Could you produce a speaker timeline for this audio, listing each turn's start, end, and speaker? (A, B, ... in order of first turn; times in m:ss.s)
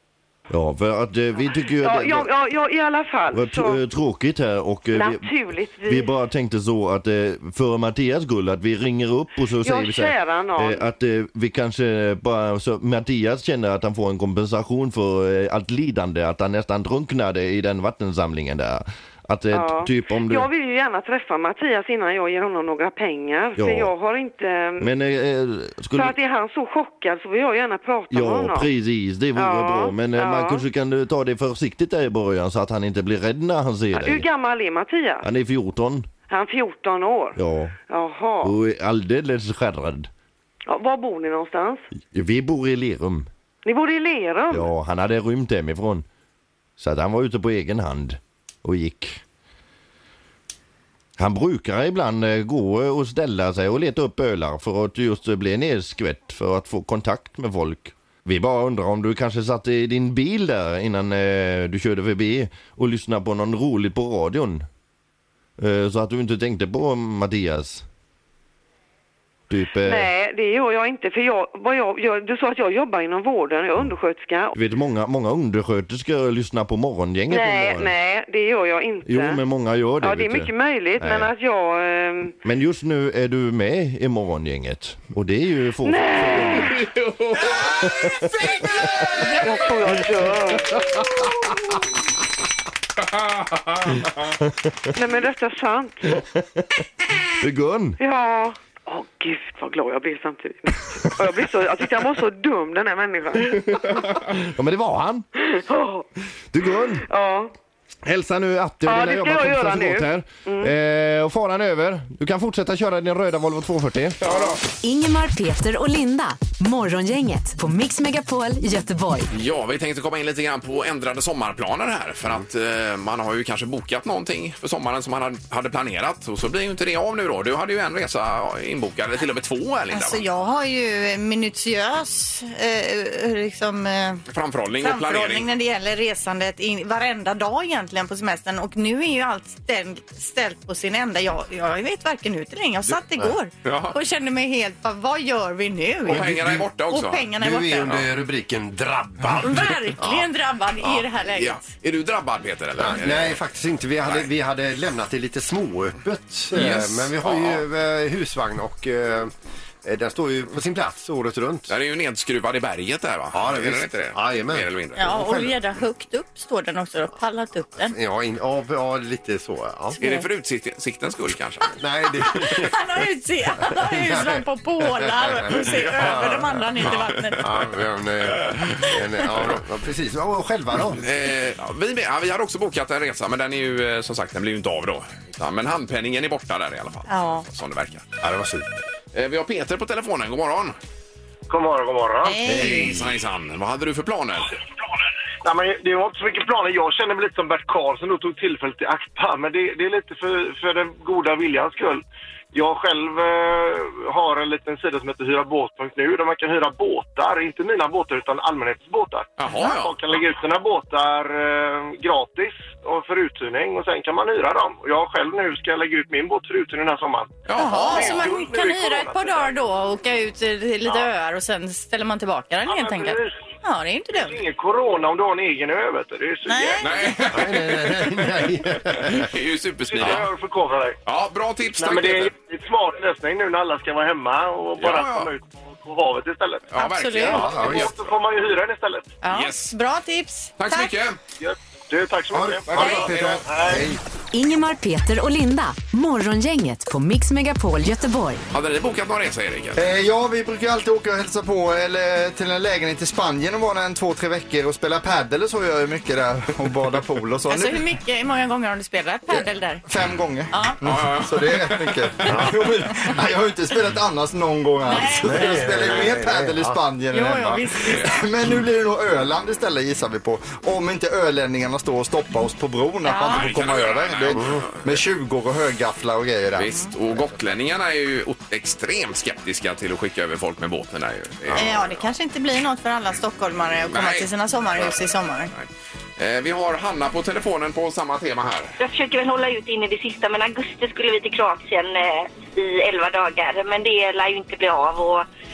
0:00.5-0:02.3 A
0:01.8-0:03.8 B
0:03.3-0:20.5 A
0:04.9-0:06.1 B
0:09.6-0:10.8 B
0:19.5-0:24.9 B
0:23.6-0:23.9 A
0:24.8-0:26.2 A
0:25.9-0:28.7 B
0:28.1-0:34.3 A
0:29.4-0:30.6 B
0:33.9-0:35.2 B
0:35.2-0:36.1 A
0:36.3-0:37.4 B
0:37.3-0:37.8 A
0:37.9-0:38.5 B
0:38.4-0:40.1 A
0:40.7-0:41.8 B
0:42.0-0:43.3 A
0:43.6-0:44.7 B
0:44.5-0:46.0 A
0:46.8-0:49.2 A
0:51.2-1:04.6 A
1:05.6-1:07.9 A
1:09.5-1:10.1 A
1:09.8-1:14.5 B
1:14.5-1:17.9 A
1:17.3-1:19.4 B
1:19.0-1:21.3 A
1:20.0-1:22.3 B
1:22.4-1:26.9 A
1:25.8-1:26.8 B
1:26.8-1:27.9 C
1:27.8-1:30.4 A
1:29.2-1:31.5 B
1:33.1-1:34.0 C
1:34.9-1:36.2 B
1:37.4-1:38.0 A
1:38.0-1:43.9 B
1:43.4-1:45.2 A
1:45.4-1:46.0 B
1:46.5-1:47.0 A
1:47.0-1:47.5 B
1:48.0-1:54.2 A
1:48.8-1:50.7 B
1:54.2-1:54.6 C
1:54.8-1:59.3 D
1:59.3-2:10.2 C
2:09.9-2:14.2 E
2:14.3-2:15.5 C
2:14.8-2:28.0 E
2:23.6-2:23.9 C
2:26.1-2:26.6 F
2:26.1-2:27.3 C
2:27.4-2:30.3 F
2:29.4-2:31.6 E
2:31.3-2:33.4 C
2:32.8-2:39.3 F
2:36.5-2:37.6 C
2:39.8-2:41.7 F
2:41.7-2:45.1 C
2:43.3-2:45.5 F
2:45.0-2:48.0 E
2:47.8-2:50.0 F
2:50.0-2:50.2 E
2:50.0-2:51.8 C
2:51.8-2:52.7 F
2:52.2-2:57.5 E
2:53.9-2:54.4 F
2:55.2-2:56.6 F
2:56.8-2:57.1 C
2:57.4-3:01.0 F
2:59.3-2:59.6 C
3:00.9-3:08.1 C
3:07.1-3:07.4 E
3:08.2-3:08.7 F
3:09.1-3:10.8 C
3:11.5-3:12.4 G
3:12.2-3:12.9 E
3:12.4-3:13.1 F
3:12.4-3:14.6 C
3:15.4-3:39.6 G
3:29.4-3:30.0 C
3:37.5-3:38.3 C
3:37.6-3:44.4 E
3:42.6-3:43.4 G
3:44.2-3:46.9 G
3:46.4-3:47.0 E
3:46.8-3:50.3 C
3:47.3-3:49.3 F
3:49.9-3:51.0 G
3:51.0-3:52.3 C
3:51.8-3:56.7 G
3:54.8-3:55.3 C
3:56.7-3:58.0 C
3:56.8-3:57.5 E
3:57.3-3:57.9 F
3:57.4-3:59.1 G
3:59.2-4:00.9 E
3:59.3-3:59.7 C
4:00.6-4:01.2 C
4:01.4-4:03.9 G
4:02.3-4:04.0 F
4:02.7-4:03.4 C
4:04.3-4:08.4 D
4:08.5-4:09.8 C
4:09.8-4:17.8 H
4:17.5-4:19.8 E
4:19.3-4:36.7 H
4:20.5-4:20.8 E
4:20.8-4:22.4 C
4:22.3-4:22.5 F
4:24.9-4:26.1 E
4:25.2-4:26.8 F
4:27.1-4:28.2 E
4:33.0-4:33.5 E
4:33.2-4:35.0 C
4:34.3-4:34.6 F
4:36.5-4:42.0 C
4:41.5-4:45.5 E
4:43.9-4:45.0 C
4:45.5-4:48.8 C
4:48.8-4:55.2 I